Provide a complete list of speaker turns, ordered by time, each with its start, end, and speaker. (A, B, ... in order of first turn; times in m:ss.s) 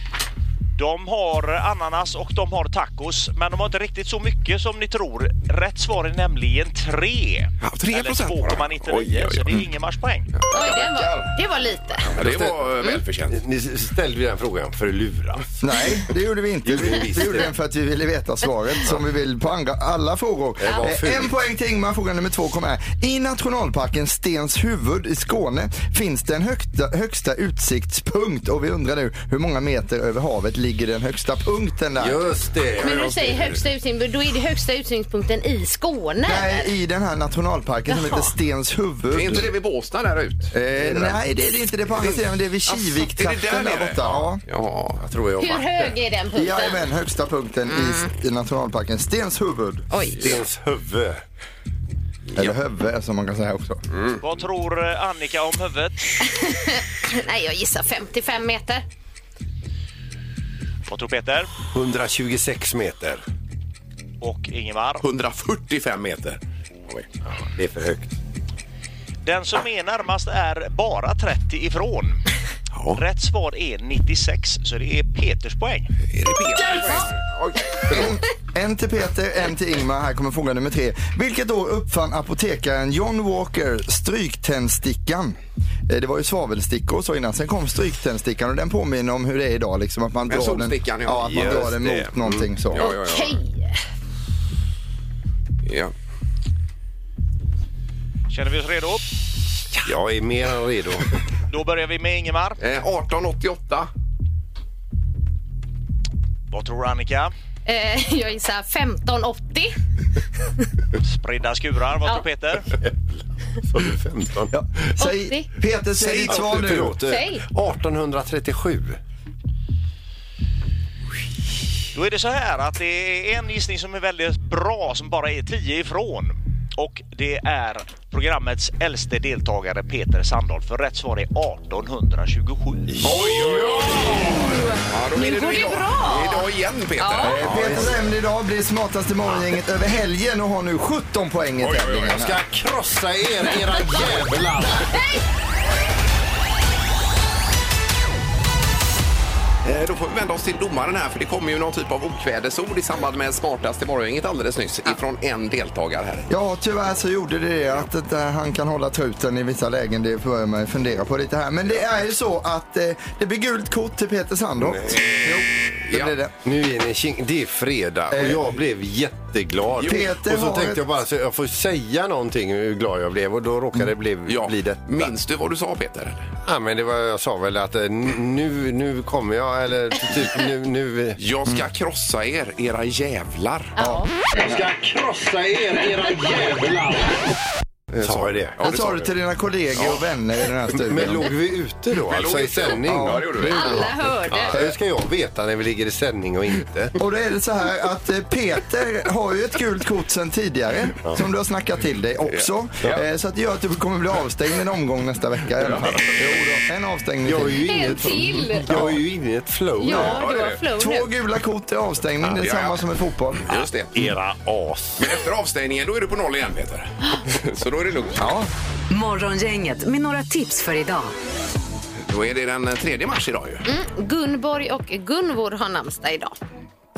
0:00.8-0:10.3 A
0:07.6-0:09.6 B
0:10.3-0:11.3 B
0:10.5-0:12.2 C
0:12.2-0:13.4 B
0:12.2-0:12.7 D
0:13.3-0:15.5 D
0:15.6-0:32.2 E
0:16.6-0:17.5 D
0:20.6-0:21.3 D
0:32.0-0:33.5 D
0:32.8-0:36.7 C
0:36.2-0:39.5 E
0:37.9-0:38.3 C
0:39.1-0:40.5 B
0:40.5-0:44.4 E
0:40.8-0:41.2 D
0:42.0-0:45.0 B
0:45.0-0:45.9 D
0:45.4-0:46.8 C
0:46.3-0:49.9 E
0:47.7-0:48.1 C
0:49.9-0:50.4 C
0:50.2-0:51.2 D
0:52.4-0:53.8 E
0:53.9-0:54.2 B
0:54.2-0:56.1 A
0:56.3-0:58.8 C
1:00.9-1:01.5 A
1:01.7-1:03.2 D
1:04.2-1:05.0 A
1:05.0-1:07.1 B
1:07.3-1:08.1 D
1:09.2-1:12.2 A
1:12.7-1:13.0 B
1:13.0-1:15.9 A
1:16.1-1:18.2 B
1:17.9-1:25.4 E
1:25.9-1:32.9 E
1:30.3-1:31.8 B
1:31.2-1:32.5 D
1:32.7-1:33.4 B
1:32.8-1:33.8 C
1:35.6-1:35.9 B
1:38.3-1:39.0 A
1:39.8-1:41.1 D
1:41.5-1:42.6 A
1:42.6-1:43.9 B
1:46.5-1:47.3 A
1:47.7-1:49.8 C
1:51.0-1:52.7 A
1:53.7-1:54.5 D
1:54.5-1:57.0 E
1:55.0-1:55.5 C
1:56.0-1:56.8 B
1:56.3-1:59.0 D
1:57.0-1:57.4 C
2:01.9-2:13.0 A
2:13.0-2:14.2 D
2:13.0-2:17.8 B
2:14.2-2:17.5 C
2:17.2-2:22.4 E
2:17.4-2:17.9 D
2:21.6-2:22.2 B
2:22.1-2:24.9 D
2:29.6-2:36.3 B
2:36.3-2:46.3 E
2:44.8-2:45.1 D
2:45.9-2:46.2 B
2:46.4-2:55.1 D
2:48.1-2:48.4 E
2:49.8-2:50.1 B
2:49.8-2:50.8 E
2:54.3-2:56.3 B
2:56.4-3:01.2 D
3:01.2-3:03.8 B
3:03.8-3:04.4 C
3:03.8-3:04.0 E
3:04.4-3:07.2 D
3:07.9-3:09.1 B
3:08.0-3:08.6 D
3:08.6-3:11.3 E
3:09.8-3:10.0 B
3:10.8-3:16.9 D
3:12.0-3:14.5 B
3:12.8-3:13.3 E
3:13.5-3:14.7 C
3:17.0-3:29.0 E
3:22.3-3:23.0 B
3:25.6-3:26.4 B
3:27.2-3:30.2 D
3:27.6-3:28.9 C
3:29.8-3:31.1 C
3:29.9-3:30.6 B
3:30.8-3:33.5 E
3:32.3-3:32.8 B
3:33.5-3:34.1 B
3:33.9-3:35.0 D
3:35.0-3:38.4 B
3:38.2-3:38.5 E
3:38.9-3:41.1 F
3:42.1-3:43.7 B
3:43.7-3:46.4 C